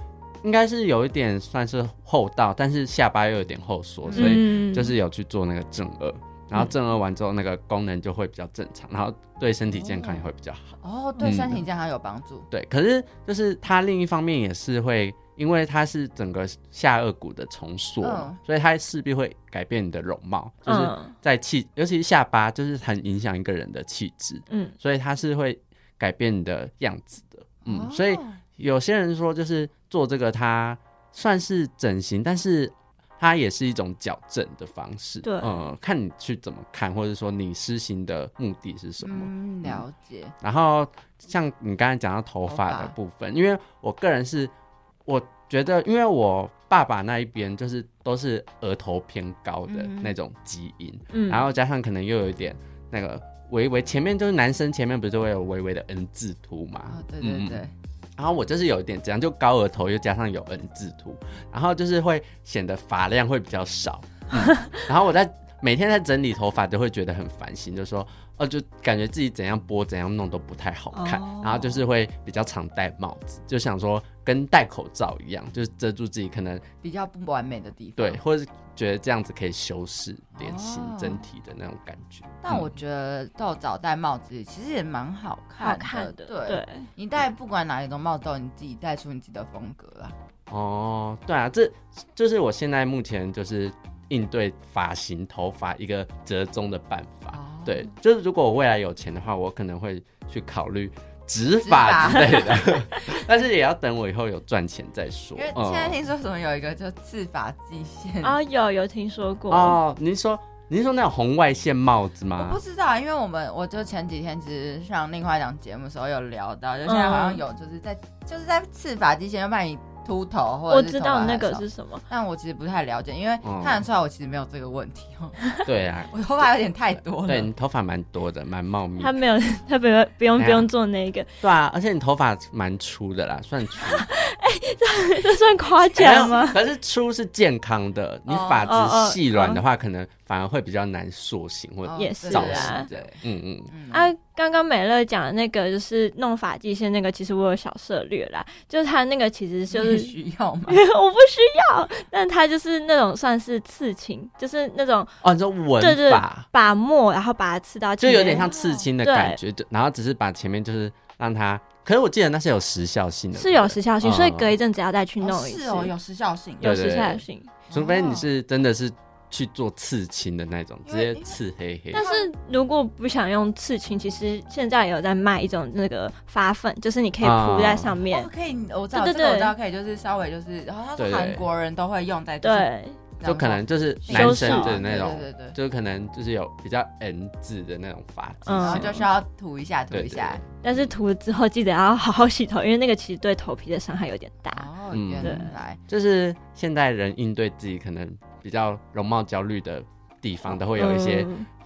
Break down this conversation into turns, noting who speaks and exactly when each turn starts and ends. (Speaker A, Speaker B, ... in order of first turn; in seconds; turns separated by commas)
Speaker A: 0.4-11.6, Speaker B: 4.1-4.4, Speaker C: 4.1-4.9, Speaker B: 9.8-10.2, Speaker B: 10.8-12.5, Speaker A: 12.5-39.8, Speaker B: 18.0-18.4, Speaker C: 20.6-21.1, Speaker B: 27.6-28.4, Speaker C: 35.2-35.5, Speaker B: 39.0-40.3, Speaker A: 40.4-44.5, Speaker B: 42.5-43.0, Speaker A: 45.1-57.6, Speaker B: 49.7-50.1, Speaker C: 51.1-51.4, Speaker B: 56.9-57.7, Speaker A: 58.2-76.6, Speaker C: 70.9-71.8, Speaker B: 76.8-78.2, Speaker A: 78.0-82.7, Speaker B: 80.4-81.2, Speaker B: 82.4-90.1, Speaker C: 85.6-86.9, Speaker A: 90.5-106.0, Speaker B: 97.3-97.8, Speaker B: 101.6-102.5, Speaker B: 105.4-108.3, Speaker C: 108.2-109.8, Speaker A: 109.5-112.6, Speaker B: 112.4-125.5, Speaker C: 116.9-117.4, Speaker C: 120.7-122.0, Speaker A: 123.4-123.8, Speaker A: 125.6-126.5, Speaker B: 126.1-127.5, Speaker A: 127.2-129.1, Speaker C: 129.0-131.3, Speaker A: 130.4-130.7, Speaker A: 131.4-134.1, Speaker C: 134.0-136.6, Speaker A: 136.0-143.7, Speaker B: 138.3-138.7, Speaker C: 138.7-139.6, Speaker B: 141.9-143.1, Speaker C: 142.0-142.9, Speaker B: 143.7-144.1, Speaker C: 143.9-150.1, Speaker B: 149.7-150.8, Speaker C: 150.7-155.1, Speaker A: 155.2-156.4, Speaker C: 155.8-158.5, Speaker A: 158.0-164.5, Speaker B: 158.5-158.8, Speaker C: 159.0-159.4, Speaker C: 163.3-165.9, Speaker B: 165.2-166.7, Speaker C: 166.6-167.5, Speaker A: 166.6-172.0, Speaker B: 167.7-168.2, Speaker B: 170.9-171.3, Speaker B: 171.9-172.3, Speaker C: 171.9-178.3, Speaker A: 177.2-177.9, Speaker B: 178.1-182.7, Speaker C: 178.9-179.5, Speaker A: 181.0-181.4, Speaker C: 182.4-183.0, Speaker B: 183.2-185.6, Speaker A: 183.2-189.0, Speaker C: 184.1-184.8, Speaker C: 188.5-189.0, Speaker B: 188.6-190.4, Speaker A: 189.9-190.9, Speaker C: 190.6-194.7, Speaker B: 194.5-195.8, Speaker A: 194.9-201.3, Speaker C: 195.2-195.5, Speaker C: 200.8-201.5